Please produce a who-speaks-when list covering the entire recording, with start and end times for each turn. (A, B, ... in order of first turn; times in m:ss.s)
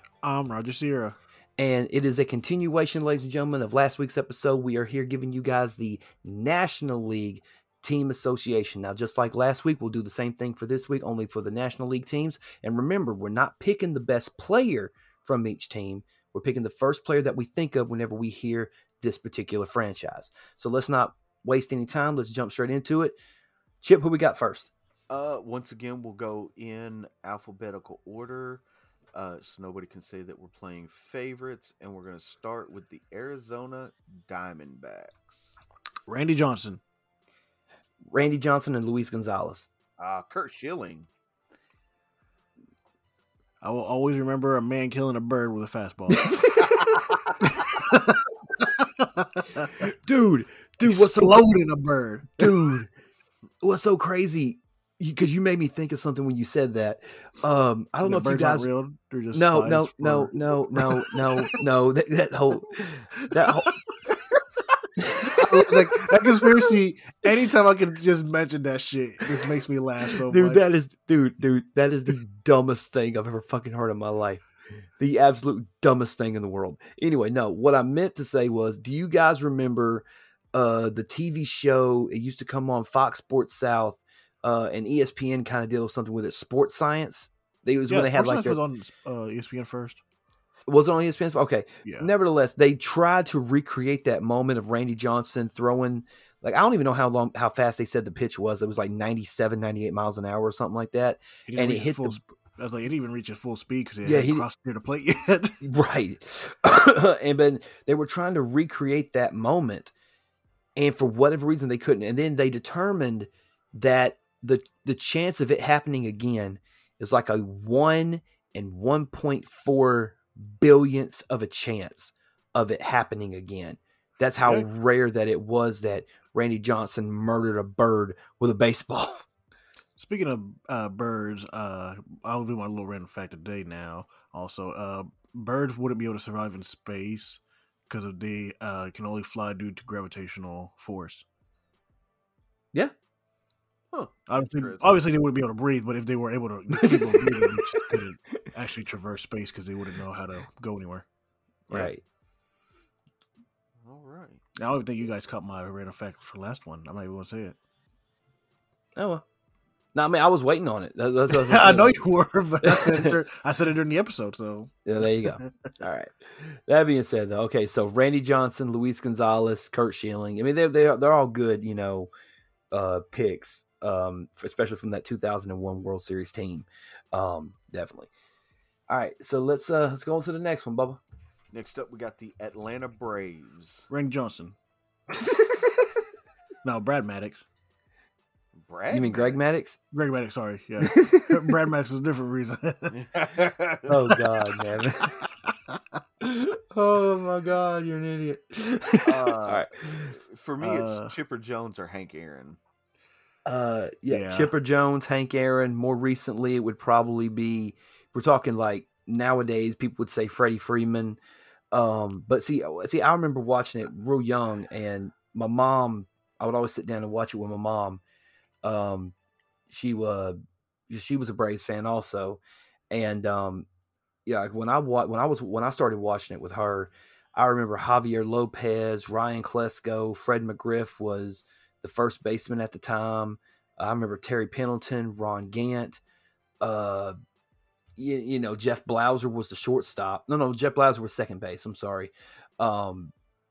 0:00.2-0:01.2 A
0:01.6-0:23.2 B
0:23.8-0:24.7 B
0:25.1-0:28.6 C
0:29.1-0:35.6 C
0:36.1-0:36.8 A
0:38.1-0:39.7 B
0:40.0-0:41.1 C
0:43.6-0:46.6 A
0:46.2-0:47.0 B
0:47.4-0:49.8 A
0:49.8-0:51.5 B
0:50.8-0:52.8 A
0:52.4-0:52.9 B
0:53.6-0:58.7 B
0:58.0-1:01.6 A
0:59.3-1:03.8 B
1:03.4-1:04.2 A
1:05.0-1:06.7 B
1:05.2-1:10.7 A
1:10.2-1:14.4 B
1:15.0-1:28.6 B
1:27.9-1:30.0 A
1:30.7-1:42.2 B
1:31.8-1:32.1 A
1:41.5-1:45.6 A
1:44.0-1:44.5 B
1:45.6-1:49.9 B
1:50.8-2:09.3 B
2:04.4-2:04.7 A
2:10.0-2:21.2 A
2:23.9-2:25.0 C
2:24.3-2:31.1 A
2:26.8-2:28.5 B
2:31.7-2:32.0 B
2:33.8-2:34.4 C
2:34.6-2:37.6 A
2:39.0-2:39.2 B
2:40.0-2:42.0 B
2:41.3-2:45.7 A
2:42.6-2:43.2 B
2:44.8-2:52.1 B
2:52.7-2:58.1 B
2:58.9-3:01.0 B
3:01.5-3:03.9 C
3:03.9-3:04.6 A
3:05.3-3:05.6 B
3:06.6-3:07.5 A
3:08.6-3:09.4 C
3:08.9-3:09.8 B
3:09.9-3:14.3 A
3:10.8-3:11.6 B
3:12.9-3:13.9 C
3:13.9-3:15.2 B
3:15.2-3:16.0 A
3:16.2-3:20.2 B
3:19.0-3:19.6 C
3:20.2-3:22.6 C
3:20.6-3:21.2 A
3:23.4-3:31.2 B
3:24.1-3:24.5 A
3:31.7-3:38.0 B
3:38.6-3:39.1 B
3:39.7-3:40.4 B
3:40.9-3:42.4 B
3:42.9-3:43.7 B
3:44.3-3:56.0 B
3:56.6-3:57.2 B
3:58.0-4:03.1 B